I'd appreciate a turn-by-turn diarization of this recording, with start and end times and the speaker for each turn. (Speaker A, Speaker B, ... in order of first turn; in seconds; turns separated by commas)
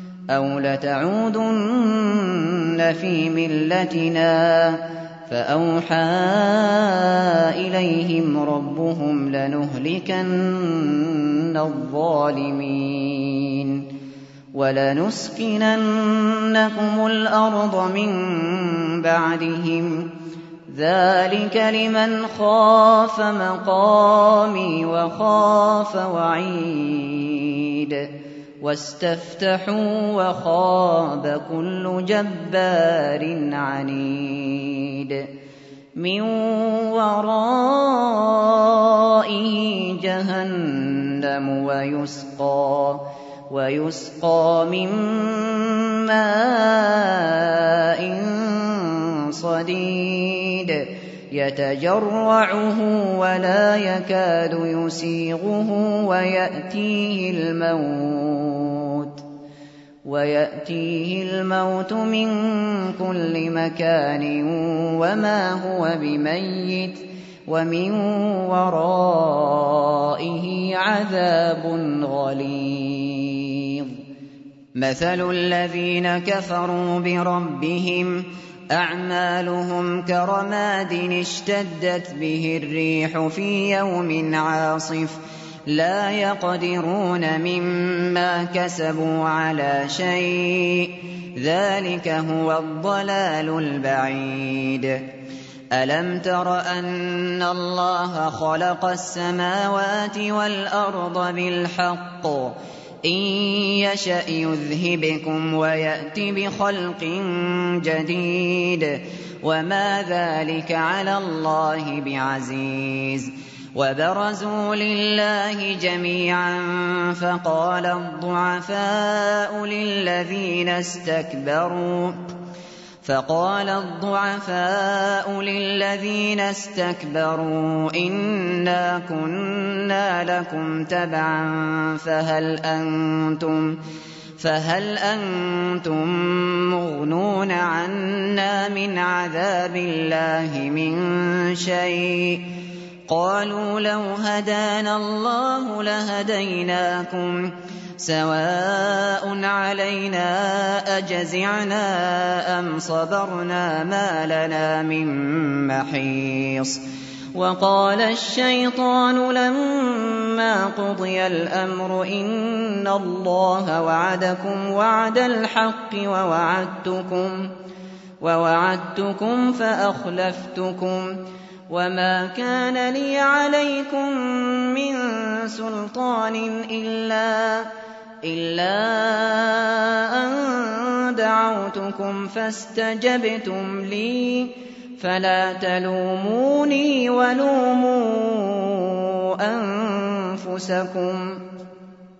Speaker A: 0.3-13.9, Speaker A: 14.5-20.1, Speaker A: 20.7-35.3, Speaker A: 36.0-59.2, Speaker A: 60.0-74.0, Speaker A: 74.7-95.0, Speaker A: 95.7-122.3, Speaker A: 123.0-133.8, Speaker A: 134.4-142.5, Speaker A: 143.1-156.8, Speaker A: 157.3-167.5, Speaker A: 168.2-177.7, Speaker A: 178.2-191.4